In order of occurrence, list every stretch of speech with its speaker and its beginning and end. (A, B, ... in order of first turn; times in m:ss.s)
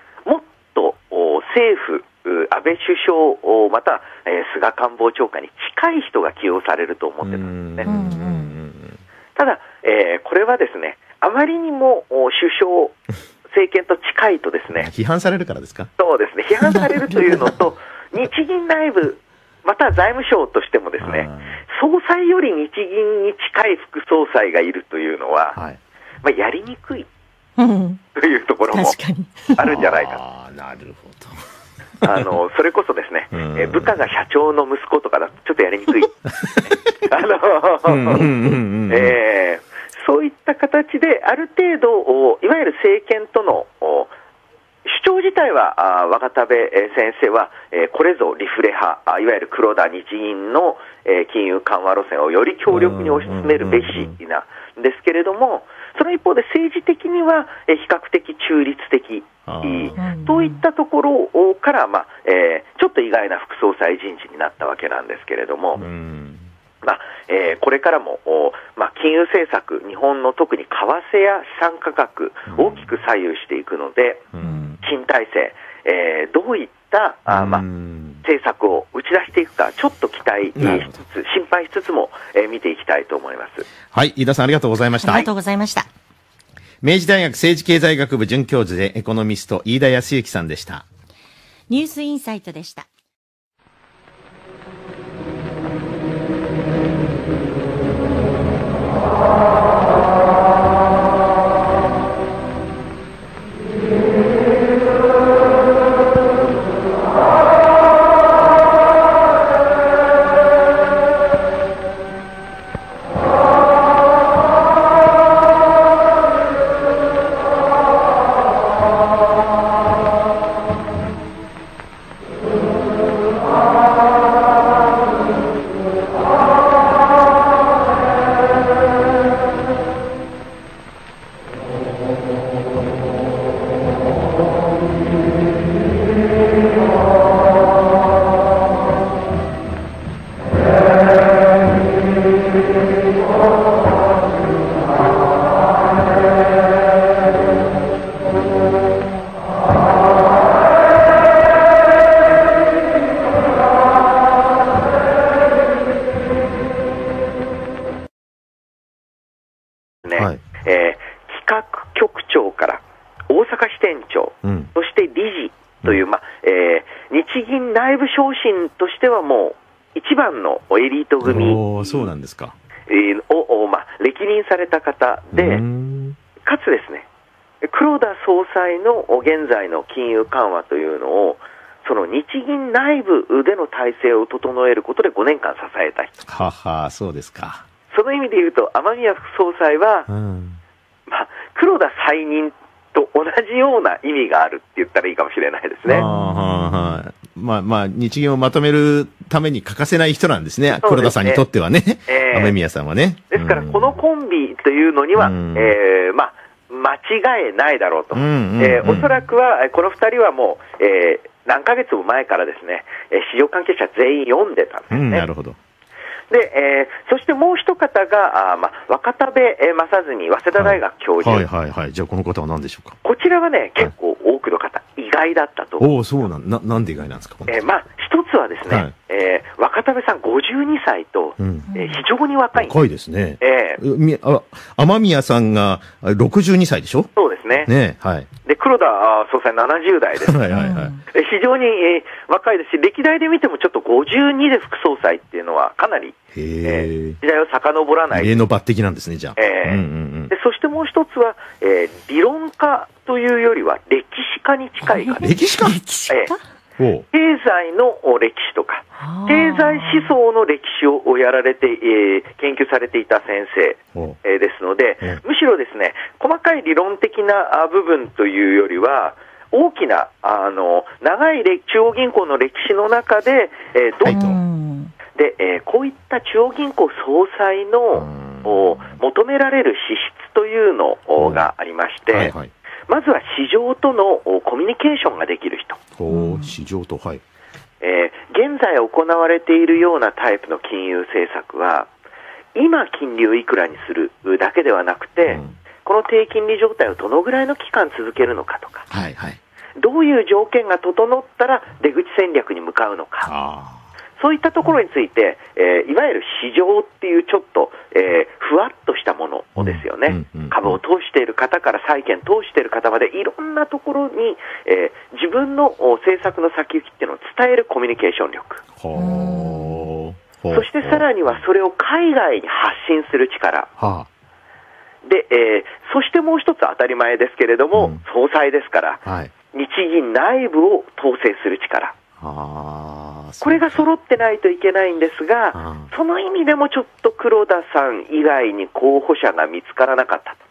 0:00.2-0:07.9 A
0:07.2-0:09.0 B
0:07.8-0:08.5 C
0:09.3-0:14.9 A
0:14.7-0:15.9 B
0:16.0-0:25.6 A
0:21.0-0:21.6 B
0:26.2-0:27.1 A
0:27.6-0:28.0 C
0:28.1-0:29.0 A
0:28.7-0:29.8 C
0:29.6-0:30.2 A
0:29.6-0:31.4 B
0:32.0-0:32.3 B
0:32.0-0:38.3 A
0:33.3-0:34.0 B
0:36.4-0:36.8 B
0:37.8-0:39.2 B
0:38.9-0:44.1 A
0:44.8-1:05.8 A
0:52.7-0:54.1 B
0:59.4-1:00.0 B
1:00.0-1:00.6 C
1:05.8-1:06.4 B
1:06.8-1:14.2 A
1:12.5-1:12.9 B
1:14.3-1:14.8 B
1:14.8-1:17.6 A
1:17.3-1:18.2 B
1:18.2-1:23.7 A
1:20.5-1:20.9 B
1:23.9-1:25.3 B
1:25.0-1:25.9 C
1:26.8-1:30.8 B
1:31.7-1:32.8 C
2:40.0-2:52.1 A
2:40.1-2:40.4 B
2:44.4-2:44.7 B
2:51.2-2:52.6 B
2:52.9-2:55.6 A
2:55.3-2:56.2 B
2:56.4-2:57.0 A
2:57.6-3:06.1 A
3:06.2-3:07.6 B
3:07.9-3:10.1 A
3:10.1-3:10.6 B
3:11.1-3:16.0 A
3:15.8-3:24.0 B
3:20.8-3:21.4 A
3:22.1-3:22.6 A
3:23.3-3:35.3 A
3:25.2-3:25.7 B
3:28.1-3:29.1 B
3:34.9-3:35.6 B
3:36.3-3:41.4 A
3:40.5-3:43.0 B
3:43.0-3:45.9 A
3:45.8-3:47.6 B
3:47.4-3:52.8 A
3:51.4-3:51.7 B
3:51.7-3:52.0 C
3:52.5-3:57.1 B
3:53.4-3:53.8 A
3:57.1-3:57.7 A
3:57.6-3:58.3 B
3:58.4-4:00.4 A
4:00.2-4:01.0 B
4:00.5-4:01.0 C
4:01.1-4:08.3 A
4:06.3-4:07.2 B
4:08.1-4:10.3 B
4:09.4-4:15.3 A
4:14.8-4:16.4 C
4:15.2-4:15.8 B
4:16.8-4:17.0 B
4:17.1-4:34.2 A
4:19.0-4:20.1 C
4:34.0-4:34.4 B
4:34.1-4:34.9 C
4:35.1-4:42.3 A
4:37.9-4:38.9 B
4:41.2-4:41.5 B
4:42.1-4:42.5 B
4:42.9-4:45.8 A
4:46.0-4:47.2 B
4:46.1-4:46.5 C
4:47.8-4:51.9 A
4:52.5-4:58.9 A
4:55.2-4:55.5 B
4:58.9-4:59.4 B
4:59.8-5:03.3 A
5:03.2-5:03.8 B
5:04.2-5:18.6 A
5:09.6-5:10.8 B
5:18.8-5:21.1 B
5:18.9-5:19.8 C
5:20.5-5:23.7 A
5:23.8-5:24.1 B
5:25.0-5:31.9 A
5:27.7-5:28.0 B
5:29.0-5:29.3 B
5:32.2-5:33.9 B
5:33.4-5:40.4 A
5:35.5-5:35.9 B